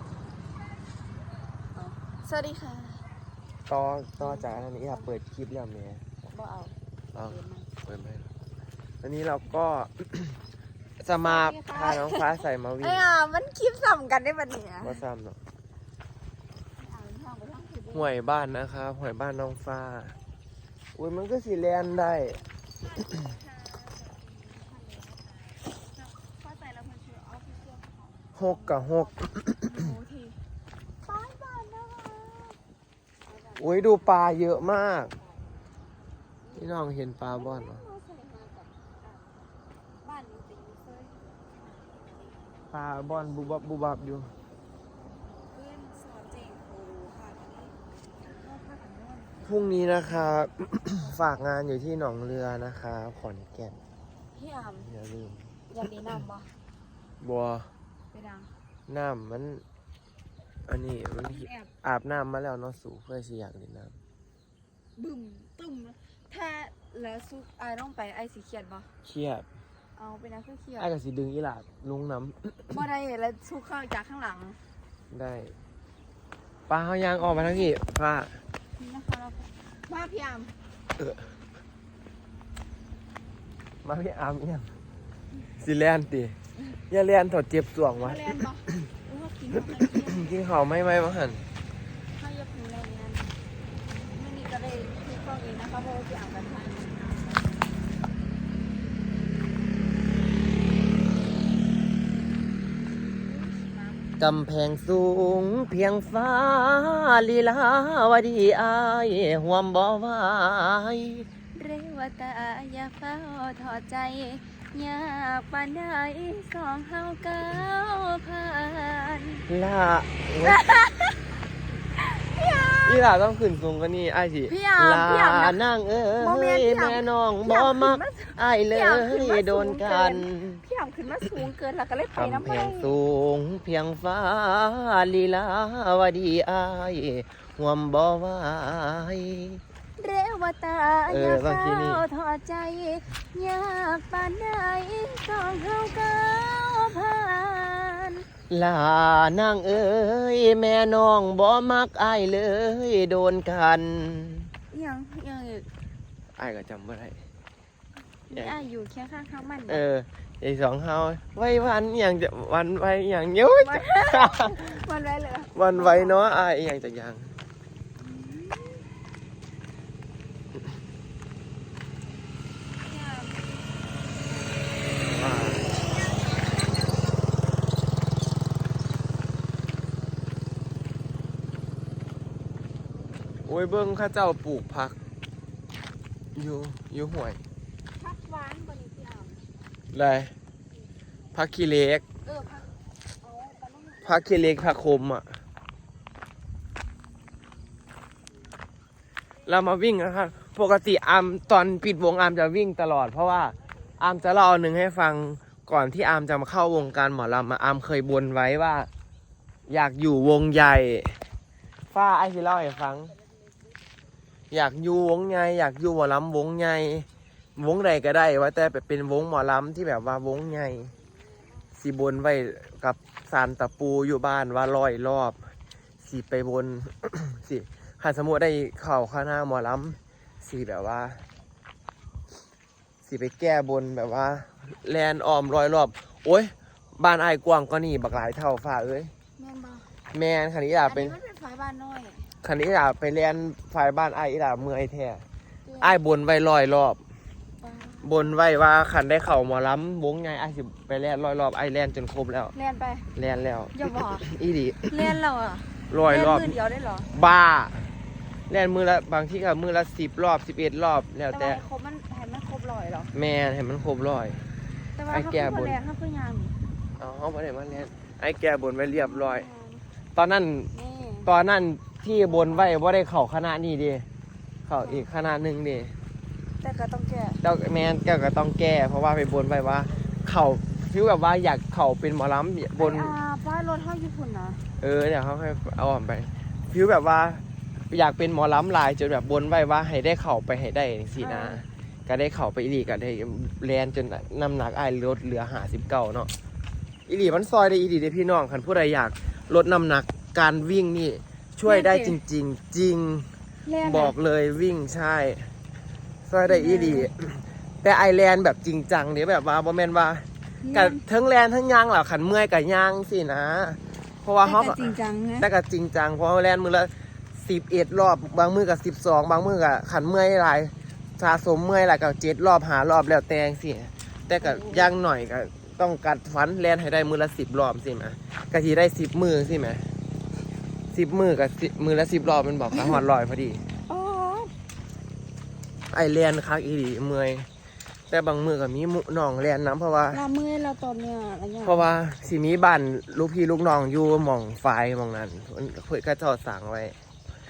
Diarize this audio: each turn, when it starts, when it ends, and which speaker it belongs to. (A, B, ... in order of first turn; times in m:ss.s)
0:01.7-0:03.1 A
0:03.7-0:06.0 B
0:04.2-0:05.1 A
0:06.2-0:07.7 A
0:07.1-0:08.3 B
0:09.0-0:10.4 B
0:11.0-0:13.0 B
0:11.2-0:15.0 A
0:14.8-0:15.4 B
0:16.8-0:18.1 A
0:17.9-0:20.2 B
0:20.9-0:22.4 B
0:22.8-0:30.4 A
0:28.3-0:29.8 B
0:31.0-0:32.6 A
0:33.2-0:34.4 A
0:33.6-0:35.1 B
0:36.4-0:39.4 A
0:36.6-0:37.8 B
0:40.0-0:43.7 A
0:42.7-0:44.3 B
0:45.5-0:49.9 A
0:49.4-0:53.8 B
0:50.9-0:51.4 A
0:54.3-0:54.9 A
0:54.8-0:55.6 B
0:55.7-0:56.5 A
0:57.2-0:57.7 B
0:58.1-0:58.5 A
0:58.9-0:59.6 B
1:00.7-1:04.0 B
1:01.2-1:01.7 A
1:05.0-1:08.9 A
1:09.0-1:09.4 B
1:09.9-1:10.9 A
1:10.8-1:12.8 B
1:12.7-1:14.6 A
1:15.1-1:15.5 B
1:16.7-1:18.4 B
1:17.4-1:17.7 A
1:18.8-1:20.6 A
1:23.8-1:24.7 B
1:25.6-1:26.3 B
1:26.9-1:28.4 B
1:28.0-1:30.3 A
1:30.0-1:31.4 B
1:32.2-1:33.4 A
1:34.1-1:37.8 A
1:40.9-1:42.0 A
1:43.1-1:44.2 A
1:44.2-1:51.3 B
1:51.5-1:59.4 A
1:59.5-2:00.6 B
2:00.4-2:01.2 A
2:02.0-2:03.0 A
2:02.8-2:10.6 B
2:04.5-2:05.6 A
2:06.2-2:12.9 A
2:12.2-2:19.6 B
2:20.0-2:28.2 A
2:21.1-2:22.0 B
2:28.5-2:34.5 B
2:34.7-2:35.7 A
2:36.4-2:37.2 B
2:38.3-2:39.8 A
2:39.7-2:44.8 B
2:43.6-2:46.2 A
2:45.5-2:47.3 B
2:48.0-2:48.9 A
2:52.8-2:54.6 A
2:55.2-2:55.7 B
3:03.4-3:05.0 B
3:06.3-3:07.4 B
3:07.9-3:09.4 A
3:09.9-3:10.3 B
3:11.3-3:12.0 B
3:12.2-3:14.2 A
3:14.0-3:15.4 B
3:19.4-3:28.9 B
3:29.7-3:31.2 B
3:31.9-3:33.1 B
3:34.5-3:40.9 B
3:41.2-3:41.6 A
3:41.7-3:45.4 B
3:46.0-3:51.2 B
3:53.0-3:59.1 B
3:59.4-3:59.9 A
4:00.1-4:01.2 B
4:00.8-4:02.4 A
4:02.4-4:05.2 B
4:05.6-4:06.0 A
4:05.8-4:07.0 B
4:07.6-4:08.4 A
4:08.0-4:12.5 B
4:12.5-4:13.1 A
4:13.1-4:15.1 B
4:13.7-4:14.3 A
4:14.9-4:17.1 A
4:15.9-4:16.6 B
4:17.1-4:17.9 B
4:18.5-4:21.6 B
4:21.3-4:23.1 A
4:23.1-4:24.4 B
4:25.0-4:26.6 A
4:25.1-4:25.8 B
4:27.0-4:29.5 B
4:28.8-4:29.9 A
4:30.1-4:30.7 B
4:30.7-4:31.3 A
4:31.2-4:34.0 B
4:32.2-4:32.8 A
4:34.7-4:35.9 B
4:34.8-4:35.1 A
4:36.6-4:37.4 A
4:37.4-4:43.1 B
4:42.8-4:44.7 A
4:44.8-4:56.3 B
4:51.2-4:51.6 A
4:57.1-5:03.3 B
5:01.6-5:02.2 A
5:03.6-5:04.2 A
5:03.8-5:05.5 B
5:06.2-5:29.9 B
5:06.5-5:07.1 A
5:10.6-5:11.0 A
5:14.4-5:15.5 A
5:24.4-5:24.9 A
5:30.9-5:33.6 B
5:32.7-5:33.0 A
5:33.9-5:34.5 A
5:35.9-5:37.4 B
5:38.1-5:40.2 B
5:40.1-5:41.9 A
5:41.6-5:47.0 B